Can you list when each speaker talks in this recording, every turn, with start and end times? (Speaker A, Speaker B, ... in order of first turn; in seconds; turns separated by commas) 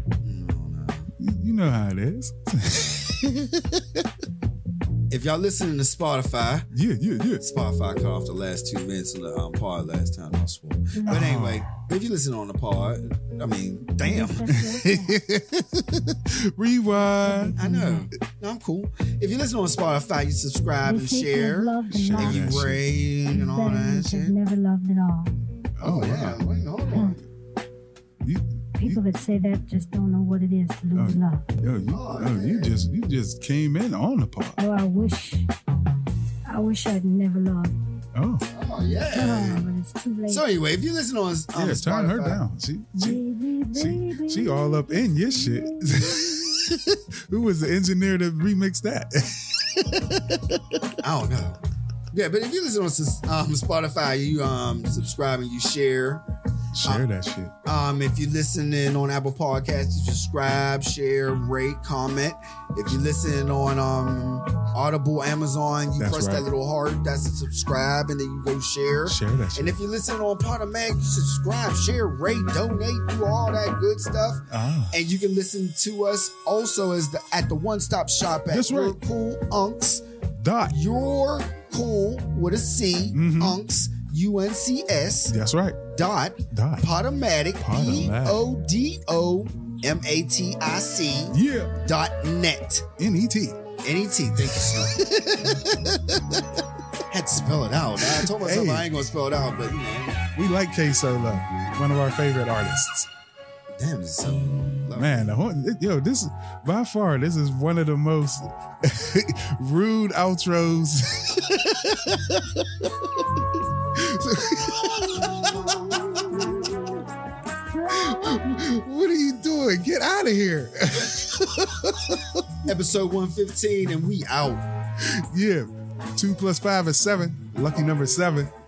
Speaker A: 0.2-1.1, Speaker B: 1.2-4.0, Speaker A: 5.1-6.7, Speaker B: 6.7-7.4, Speaker A: 7.4-14.5, Speaker C: 11.0-11.3, Speaker B: 11.1-11.8, Speaker C: 14.0-15.2, Speaker B: 14.5-17.6, Speaker C: 17.2-18.1, Speaker A: 17.6-24.3, Speaker C: 20.9-22.7, Speaker B: 21.9-22.8, Speaker C: 23.3-25.3, Speaker B: 25.8-26.4, Speaker A: 25.8-27.2, Speaker B: 28.2-29.0, Speaker C: 28.8-31.5, Speaker B: 30.9-34.6, Speaker A: 31.9-32.8, Speaker C: 34.6-35.5, Speaker C: 36.5-37.7, Speaker B: 38.1-38.5, Speaker A: 38.5-39.6, Speaker C: 39.1-40.4, Speaker A: 40.3-42.4, Speaker B: 41.5-43.2, Speaker C: 43.0-46.6, Speaker B: 43.7-50.8, Speaker A: 51.0-51.6, Speaker A: 52.1-56.2, Speaker B: 56.7-57.5, Speaker A: 57.6-80.0, Speaker B: 66.0-66.5, Speaker B: 69.0-69.7, Speaker B: 74.5-75.0, Speaker B: 78.5-79.0, Speaker B: 80.3-80.7, Speaker A: 80.7-85.3, Speaker B: 83.1-83.6, Speaker B: 85.3-85.8, Speaker A: 85.9-92.9, Speaker B: 86.5-86.9, Speaker B: 87.6-88.4, Speaker B: 91.3-91.7, Speaker B: 93.0-93.6, Speaker A: 93.8-95.7, Speaker B: 94.6-96.4, Speaker A: 97.1-100.2, Speaker B: 98.2-98.9, Speaker B: 100.3-103.1, Speaker A: 103.7-105.3, Speaker B: 104.9-113.3, Speaker B: 113.9-117.0, Speaker B: 117.8-122.5, Speaker A: 122.7-124.6, Speaker B: 125.1-128.5